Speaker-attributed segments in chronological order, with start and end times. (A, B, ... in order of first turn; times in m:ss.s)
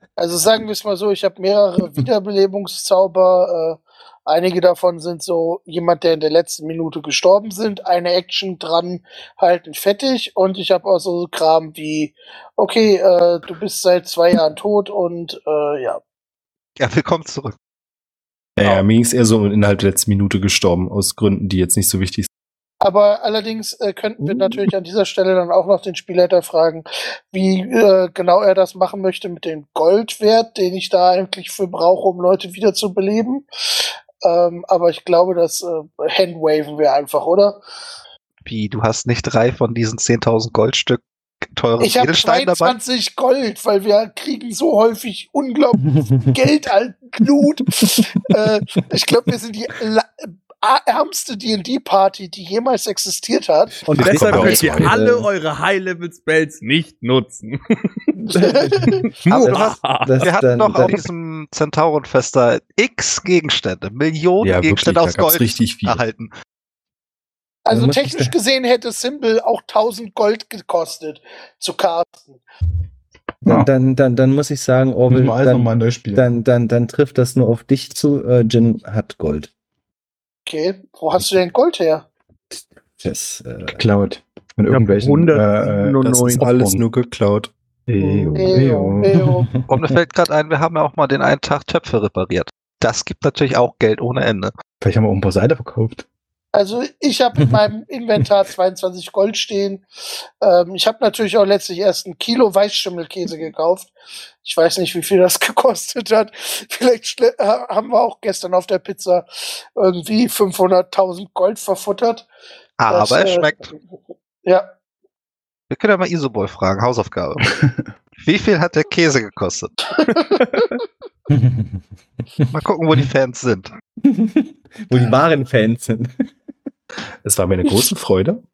0:00.2-0:16.0 A
0:16.8-0:17.6 B
0:18.6-0:22.3 C
0:22.8-0:37.6 A
0:38.4-0:42.8 B
0:41.8-0:53.8 A
0:53.8-0:55.3 D
0:53.9-0:55.0 E
0:54.0-0:58.1 F
0:54.3-0:54.6 B
0:58.2-1:01.0 D
0:58.4-0:58.9 A
0:59.2-1:00.2 F
0:59.3-1:06.3 B
1:04.4-1:06.0 C
1:07.6-1:12.4 A
1:07.7-1:08.3 D
1:13.4-1:13.7 E
1:13.4-1:19.5 D
1:15.1-1:16.3 E
1:20.4-1:22.0 A
1:22.5-1:23.8 D
1:23.7-1:26.8 E
1:24.7-1:26.5 F
1:26.0-1:27.5 C
1:27.9-1:29.2 E
1:28.0-1:28.5 F
1:28.3-1:29.5 A
1:29.7-1:34.5 B
1:34.8-1:36.0 E
1:36.5-1:39.8 A
1:40.4-1:43.9 A
1:44.4-1:52.3 A
1:52.8-1:53.7 B
1:52.9-1:53.8 A
1:55.7-1:57.5 B
1:57.5-1:57.9 E
1:58.2-1:59.8 B
2:00.0-2:00.7 A
2:01.3-2:01.8 D
2:02.5-2:03.7 B
2:04.0-2:06.1 D
2:07.2-2:08.4 C